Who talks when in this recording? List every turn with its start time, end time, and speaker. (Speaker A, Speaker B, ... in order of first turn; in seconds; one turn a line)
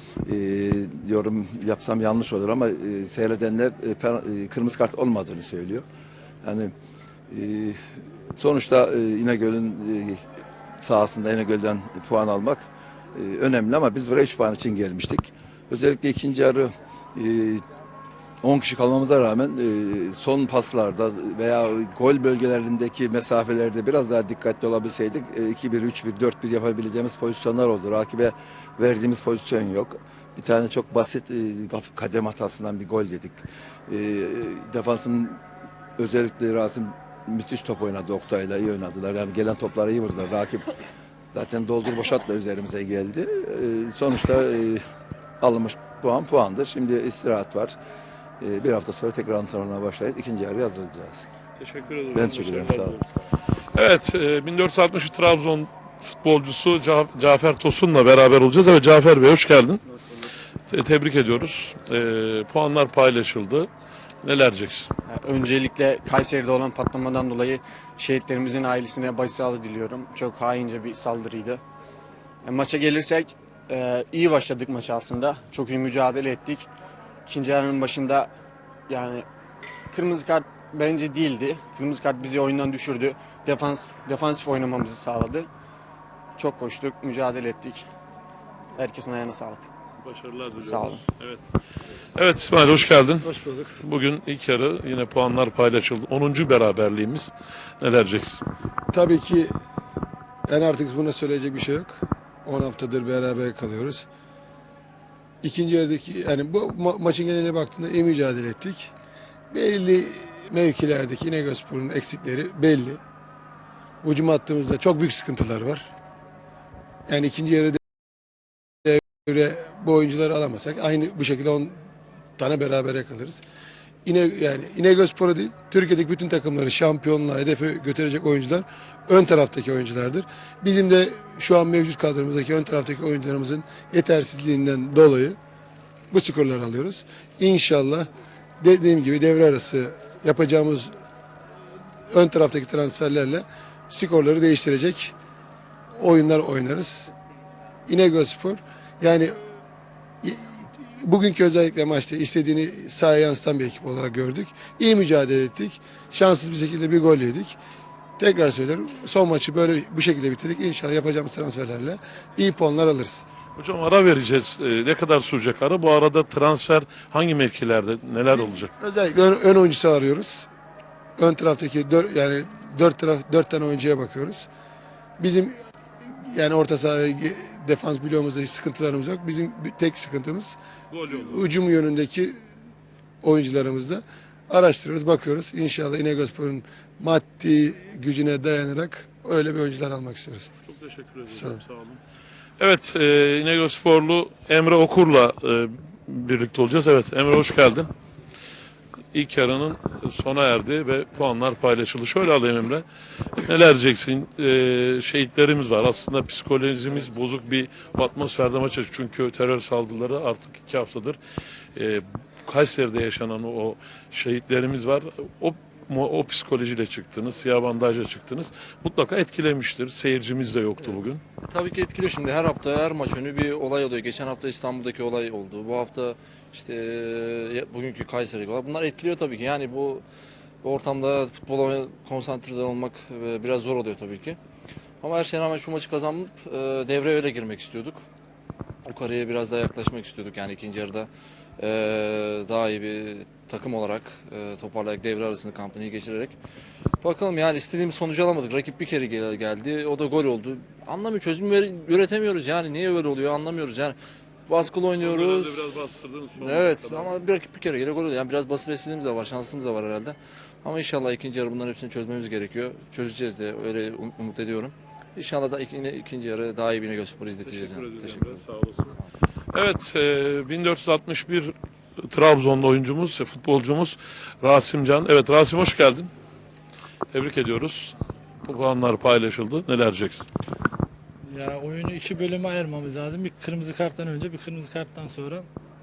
Speaker A: 0.2-5.8
Speaker A: 6.4-6.7
Speaker A: 7.3-7.8
Speaker A: 8.3-10.2
Speaker A: 10.8-17.6
Speaker A: 18.4-35.4
Speaker A: 36.0-40.7
Speaker A: 41.3-44.8
Speaker A: 45.4-47.8
Speaker A: 48.4-51.2
Speaker B: 51.6-53.0
Speaker A: 52.1-53.0
Speaker B: 53.7-59.8
Speaker B: 60.7-63.7
Speaker B: 64.2-64.9
Speaker C: 65.1-71.6
Speaker C: 72.4-76.7
Speaker C: 77.2-78.3
Speaker C: 78.9-79.3
Speaker C: 79.9-85.5
Speaker C: 86.4-87.9
Speaker C: 88.7-89.7
Speaker B: 90.0-91.4
Speaker C: 90.5-91.0
Speaker B: 92.2-98.4
Speaker D: 98.9-99.5
Speaker D: 100.5-104.0
Speaker D: 105.4-108.9
Speaker D: 109.5-113.0
Speaker D: 114.0-115.9
Speaker D: 117.1-117.8
Speaker D: 118.8-121.8
Speaker D: 122.4-123.4
Speaker D: 124.0-135.4
Speaker D: 136.1-138.1
Speaker D: 138.6-140.9
Speaker D: 142.1-145.1
Speaker D: 145.9-147.1
Speaker D: 147.9-149.4
Speaker D: 150.2-157.6
Speaker D: 158.2-163.2
Speaker B: 163.6-168.7
Speaker D: 168.3-170.5
Speaker D: 171.2-174.5
Speaker D: 175.2-180.6
Speaker B: 180.9-181.6
Speaker D: 181.1-182.4
Speaker D: 183.2-190.5
Speaker B: 190.7-192.0
Speaker D: 191.3-191.6
Speaker B: 192.6-197.9
Speaker B: 199.1-202.8
Speaker B: 203.4-211.2
Speaker B: 211.8-221.2
Speaker E: 220.8-230.0
Speaker E: 230.6-234.4
Speaker E: 235.0-238.0
Speaker E: 238.8-246.3
Speaker E: 247.0-253.9
Speaker E: 254.5-255.8
Speaker B: 255.0-257.3
Speaker E: 256.3-269.1
Speaker B: 267.4-268.9
Speaker B: 269.5-271.5
Speaker B: 272.1-276.1
Speaker B: 277.1-280.2
Speaker F: 281.3-285.4